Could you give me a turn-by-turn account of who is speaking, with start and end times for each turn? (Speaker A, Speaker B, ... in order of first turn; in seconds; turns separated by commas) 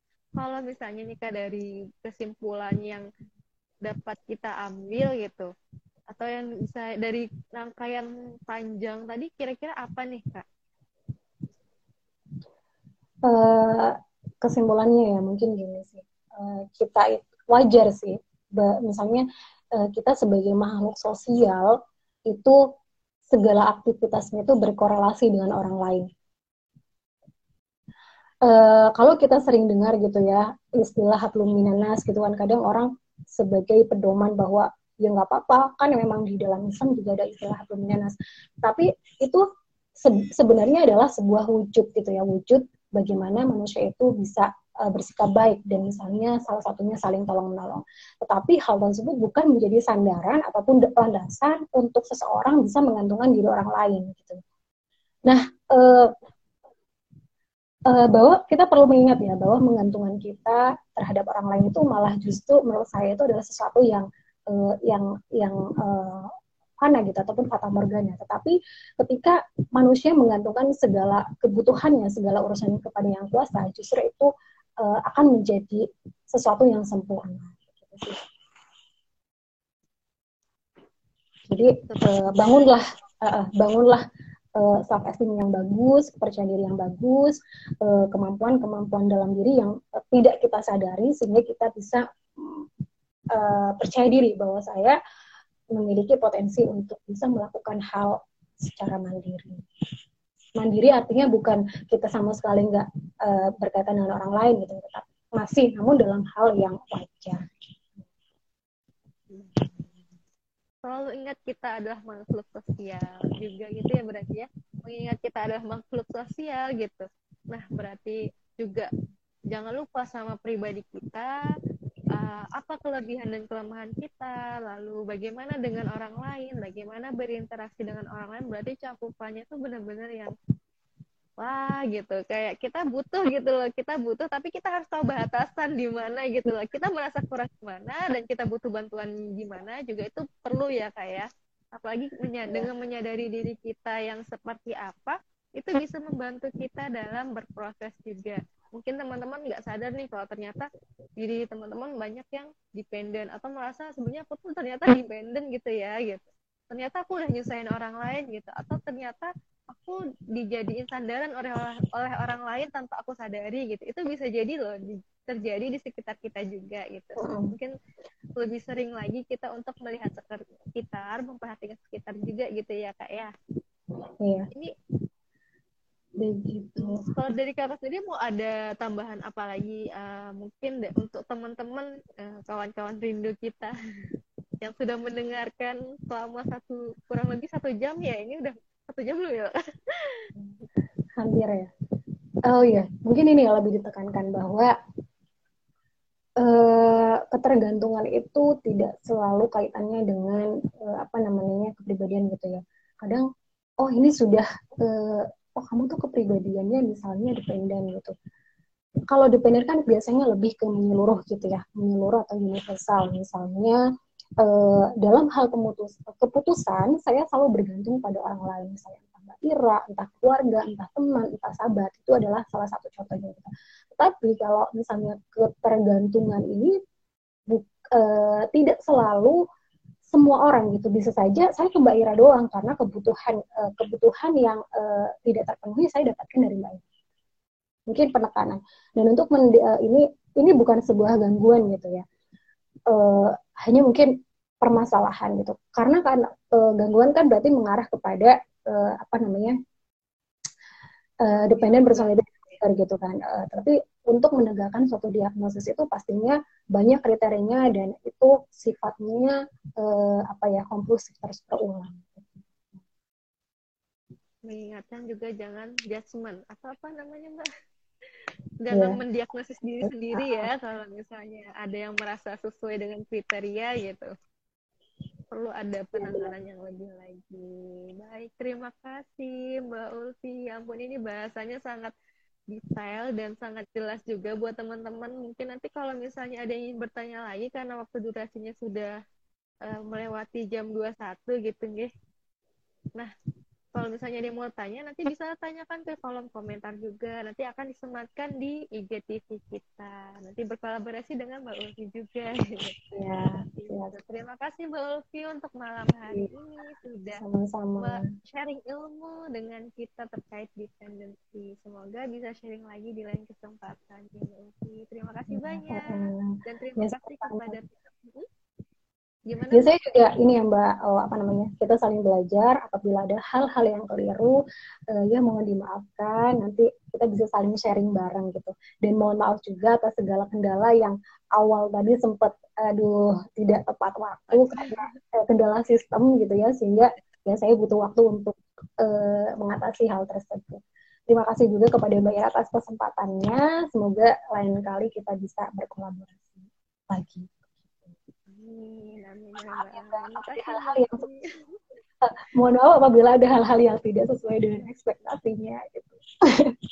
Speaker A: 0.4-3.0, Speaker A: 3.8-5.5, Speaker A: 6.1-10.4, Speaker B: 13.2-21.7, Speaker B: 22.3-22.6, Speaker B: 23.3-26.1, Speaker B: 28.4-39.4, Speaker B: 40.0-54.4, Speaker B: 55.3-56.1, Speaker B: 57.9-66.3, Speaker B: 66.8-74.3, Speaker B: 74.8-78.2, Speaker B: 81.5-84.0, Speaker A: 81.9-82.8, Speaker B: 84.6-92.7, Speaker B: 93.3-95.0, Speaker B: 95.7-99.6, Speaker B: 100.6-107.6, Speaker A: 109.3-110.0, Speaker A: 110.9-118.9, Speaker A: 119.5-121.3, Speaker A: 122.2-130.3, Speaker A: 131.4-150.7, Speaker A: 151.2-167.7, Speaker B: 167.2-167.5, Speaker A: 168.4-173.3, Speaker B: 174.2-174.5, Speaker B: 176.2-177.0, Speaker A: 176.8-183.7, Speaker A: 184.6-190.2, Speaker B: 191.2-191.7, Speaker B: 192.5-194.7, Speaker B: 196.4-203.2, Speaker B: 203.8-208.1, Speaker B: 209.1-213.8, Speaker B: 214.4-226.8, Speaker B: 227.5-229.4, Speaker B: 230.1-236.8, Speaker B: 237.9-242.0, Speaker B: 242.9-244.1, Speaker B: 244.6-249.6, Speaker B: 251.2-262.4, Speaker A: 251.3-252.2, Speaker A: 264.5-267.4, Speaker A: 268.6-274.1, Speaker B: 268.7-269.0, Speaker B: 269.8-270.5, Speaker A: 275.3-281.9, Speaker B: 276.0-276.3, Speaker A: 282.5-289.0, Speaker A: 289.7-291.9, Speaker A: 293.8-302.7, Speaker B: 302.9-304.0, Speaker A: 303.4-307.2, Speaker B: 307.2-308.1, Speaker A: 307.8-318.3, Speaker B: 315.3-317.6, Speaker A: 319.3-319.7, Speaker B: 319.5-324.4, Speaker B: 324.9-347.9, Speaker A: 334.3-335.0, Speaker A: 348.3-351.3, Speaker B: 349.5-351.1, Speaker B: 352.0-356.5